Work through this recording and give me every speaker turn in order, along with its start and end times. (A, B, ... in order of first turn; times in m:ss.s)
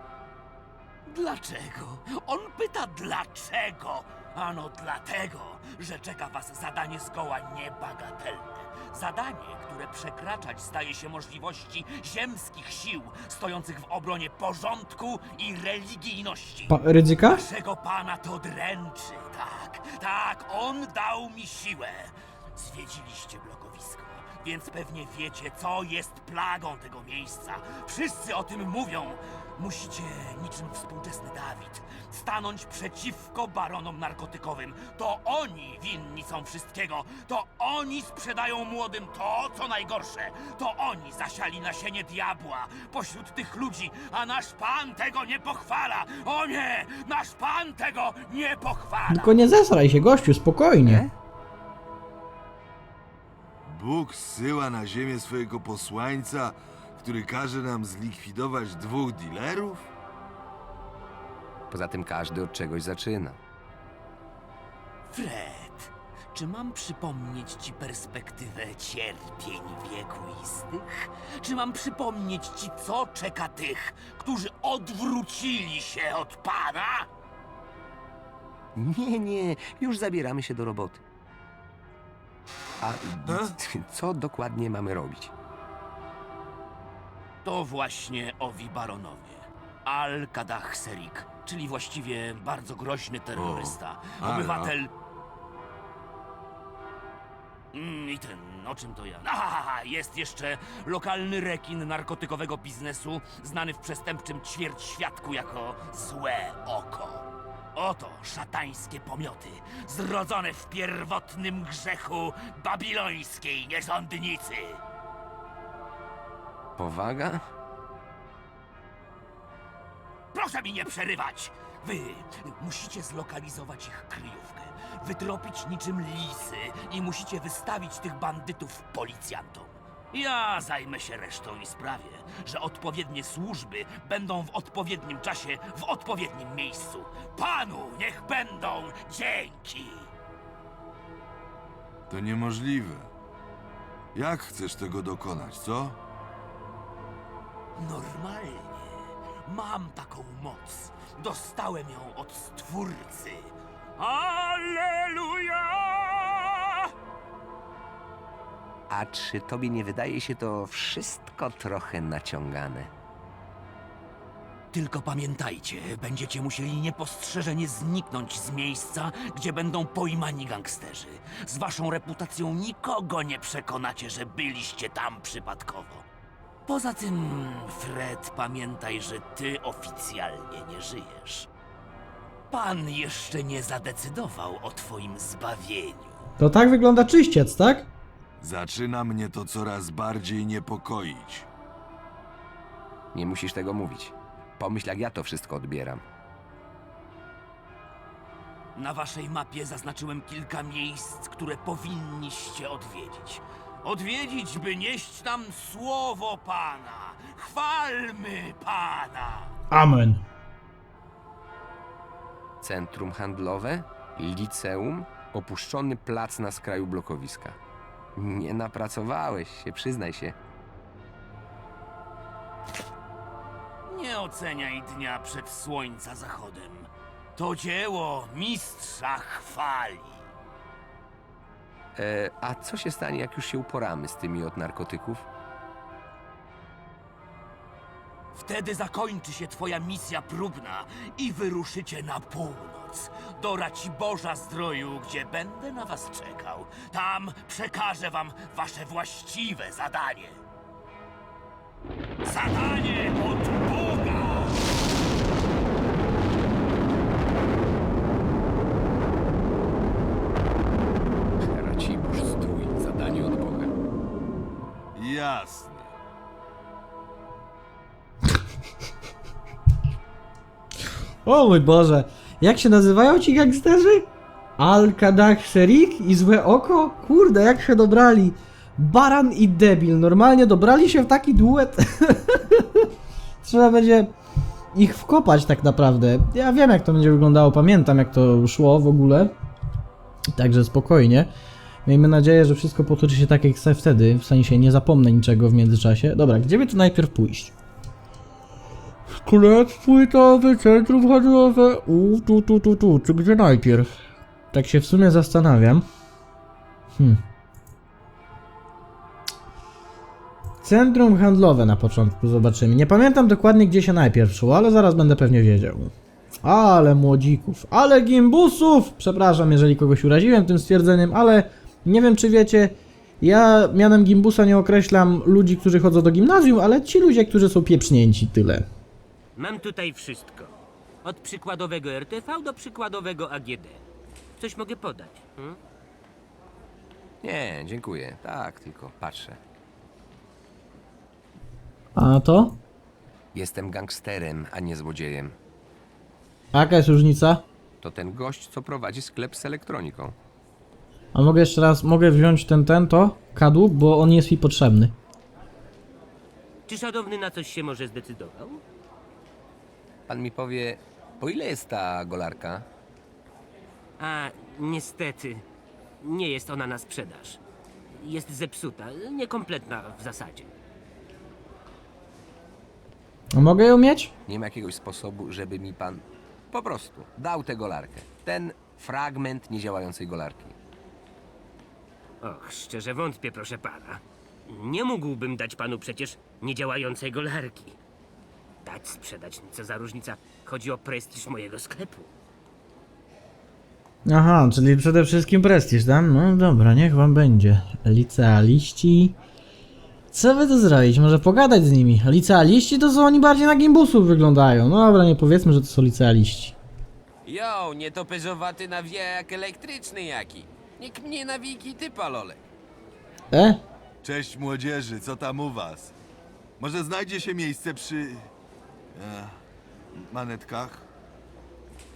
0:01.1-0:49.4 A
0:16.7-0:17.4 B
0:49.1-0:51.0 B
0:50.8-0:51.1 C
0:53.7-0:59.9 D
1:01.7-1:03.4 C
1:05.1-1:17.1 A
1:18.8-1:21.0 C
1:22.8-1:25.3 C
1:23.3-1:23.5 D
1:27.4-1:34.9 A
1:33.4-1:34.7 D
1:37.7-1:54.8 A
1:56.8-1:57.5 C
2:00.3-2:20.1 A
2:22.1-2:23.1 D
2:24.2-2:26.0 D
2:27.8-2:36.9 A
2:38.9-2:42.9 C
2:44.7-2:56.1 A
2:56.7-3:01.5 A
3:02.5-3:06.2 A
3:06.4-3:07.9 B
3:08.4-3:11.5 D
3:13.1-3:16.0 C
3:18.8-3:29.6 A
3:29.7-3:30.2 B
3:32.6-3:37.6 C
3:38.2-3:40.4 C
3:43.9-3:50.3 A
3:52.0-3:55.3 C
3:58.3-4:10.4 A
4:12.2-4:14.8 A
4:21.4-4:23.7 C
4:25.0-4:25.9 D
4:31.2-4:42.8 B
4:43.4-4:44.1 B
4:44.7-4:49.3 B
4:50.3-4:51.3 B
4:51.9-4:57.5 B
4:59.2-5:03.9 B
5:04.5-5:05.8 B
5:10.6-5:28.7 B
5:29.4-5:33.8 E
5:34.4-5:35.6 E
5:37.2-5:39.4 C
5:42.0-5:42.6 B
5:43.3-5:45.4 C
5:46.5-5:47.4 B
5:47.8-5:50.2 C
5:51.1-5:55.0 B
5:56.7-5:58.6 E
6:00.1-6:02.7 C
6:04.0-6:05.4 E
6:06.0-6:07.4 E
6:07.9-6:10.5 E
6:13.3-6:14.1 B
6:14.3-6:20.6 C
6:22.2-6:27.8 E
6:28.6-6:32.1 E
6:34.1-6:39.2 B
6:40.1-6:46.6 B
6:47.3-6:52.4 F
6:53.3-6:53.6 B
6:54.0-6:55.9 D
6:56.6-6:58.3 D
6:58.9-6:59.4 D
6:59.9-7:00.9 D